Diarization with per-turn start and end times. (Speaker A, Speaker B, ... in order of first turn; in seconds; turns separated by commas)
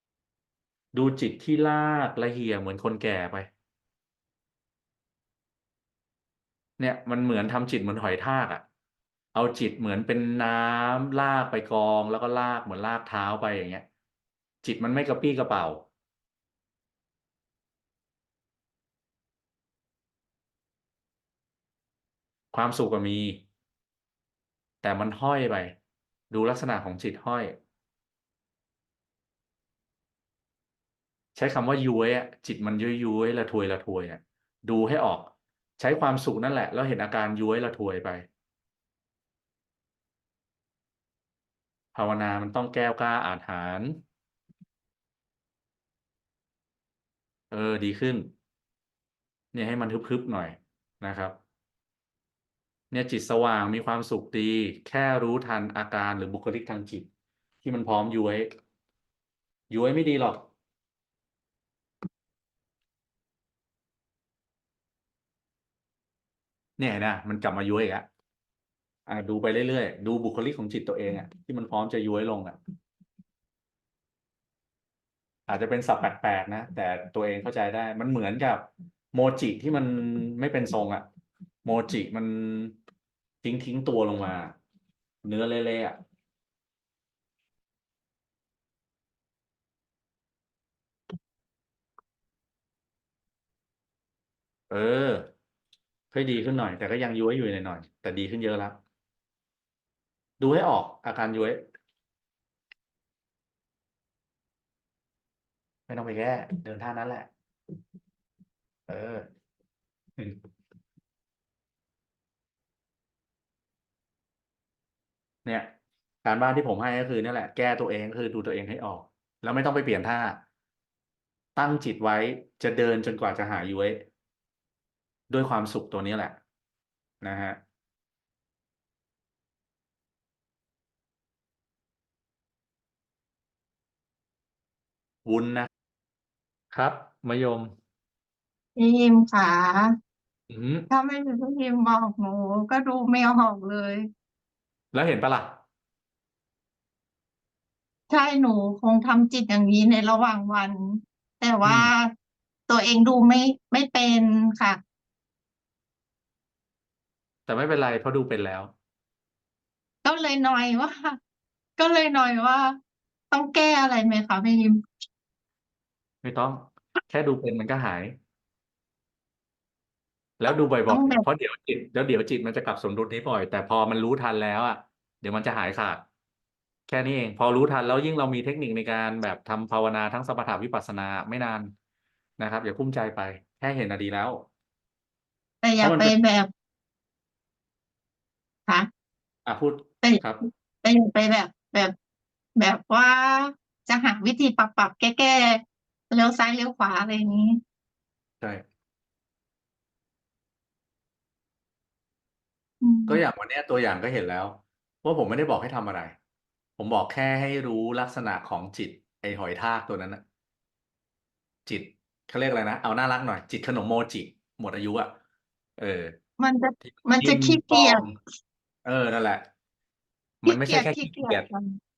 Speaker A: 0.9-3.5, Speaker A: 6.8-8.6, Speaker A: 9.3-13.8, Speaker A: 14.6-15.9, Speaker A: 22.5-23.4, Speaker A: 24.8-25.8, Speaker A: 26.3-27.6, Speaker A: 31.3-38.3, Speaker A: 42.0-44.0, Speaker A: 47.5-48.3, Speaker A: 49.5-51.4, Speaker A: 52.9-57.1, Speaker A: 57.6-58.5, Speaker A: 59.7-60.5, Speaker A: 66.8-68.1, Speaker A: 69.1-72.6, Speaker A: 75.5-81.0, Speaker A: 81.6-82.8, Speaker A: 83.4-84.5, Speaker A: 85.2-86.0, Speaker A: 94.7-95.2, Speaker A: 96.1-98.8, Speaker A: 100.4-101.6, Speaker A: 105.9-107.3, Speaker A: 108.9-109.2, Speaker A: 115.4-115.7, Speaker A: 116.2-120.4, Speaker A: 121.6-124.1, Speaker A: 125.3-126.4, Speaker A: 127.2-127.6, Speaker A: 135.2-135.7, Speaker A: 136.7-137.7, Speaker B: 138.8-140.0, Speaker A: 140.5-140.9, Speaker B: 140.9-144.1, Speaker A: 144.9-145.6, Speaker B: 148.1-152.1, Speaker A: 151.6-151.9, Speaker B: 152.7-154.8, Speaker A: 157.5-158.7, Speaker B: 160.0-161.2, Speaker B: 161.8-162.8, Speaker B: 163.3-164.8, Speaker A: 166.2-168.2, Speaker A: 170.4-176.0, Speaker B: 170.5-171.2, Speaker A: 176.9-181.7, Speaker A: 182.4-184.5, Speaker B: 185.6-186.5, Speaker A: 185.8-186.1, Speaker A: 189.5-190.4, Speaker B: 190.0-190.3, Speaker B: 190.8-191.9, Speaker B: 192.6-197.6, Speaker B: 202.8-203.2, Speaker A: 203.1-206.2, Speaker A: 206.8-210.2, Speaker A: 211.7-215.1, Speaker A: 215.8-216.2, Speaker B: 216.4-218.1, Speaker A: 216.8-218.1, Speaker A: 218.8-219.4, Speaker A: 220.4-221.5, Speaker B: 220.5-221.8